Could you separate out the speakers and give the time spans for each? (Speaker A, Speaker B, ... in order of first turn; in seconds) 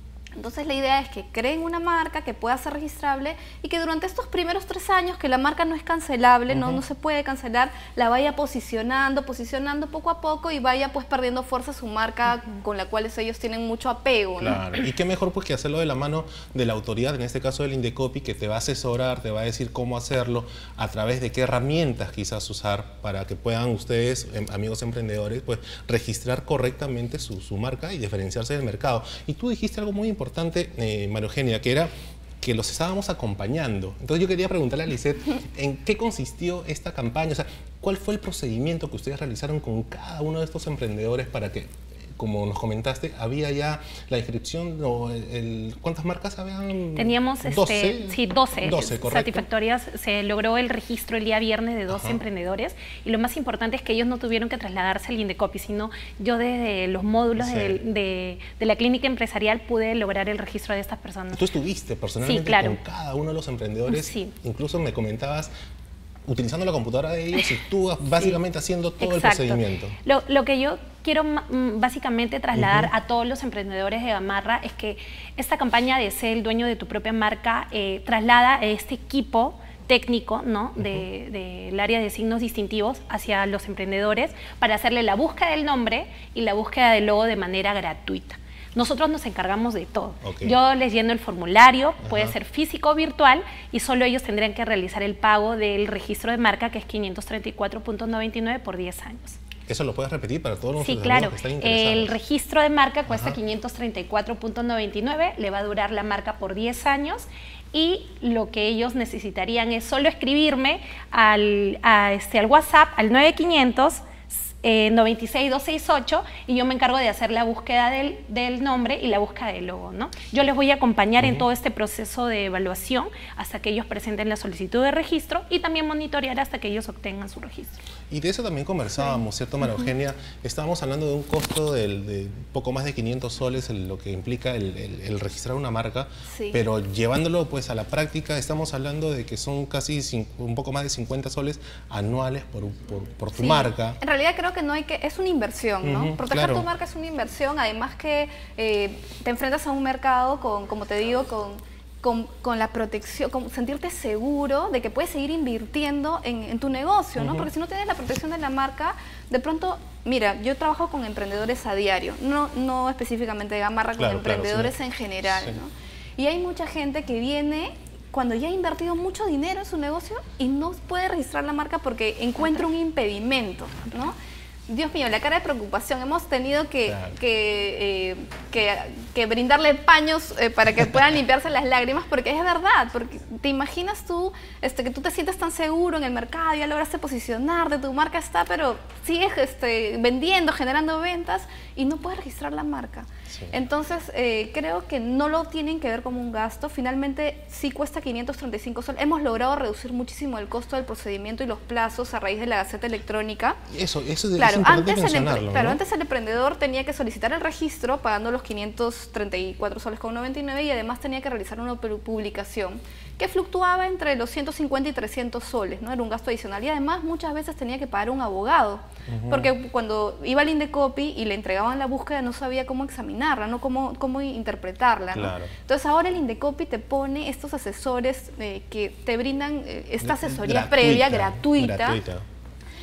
Speaker A: 0.3-14.7, 136.3-136.6, 143.4-174.2, 174.7-203.6, 204.4-232.0
Speaker B: 6.5-6.8, 14.4-49.5, 51.9-52.2, 57.4-57.8, 61.3-65.5, 66.3-70.0, 72.5-72.9, 80.8-81.0, 90.2-90.6, 92.0-92.3, 99.7-102.2, 103.1-103.4, 121.2-121.5, 128.1-144.0, 145.8-146.7, 157.2-157.5, 164.0-165.6, 176.9-177.2, 193.3-193.6, 203.7-205.8, 219.1-219.5, 225.1-225.5, 230.0-232.3
Speaker C: 47.0-61.5, 62.2-62.8, 63.9-64.3, 69.0-99.4, 100.8-127.8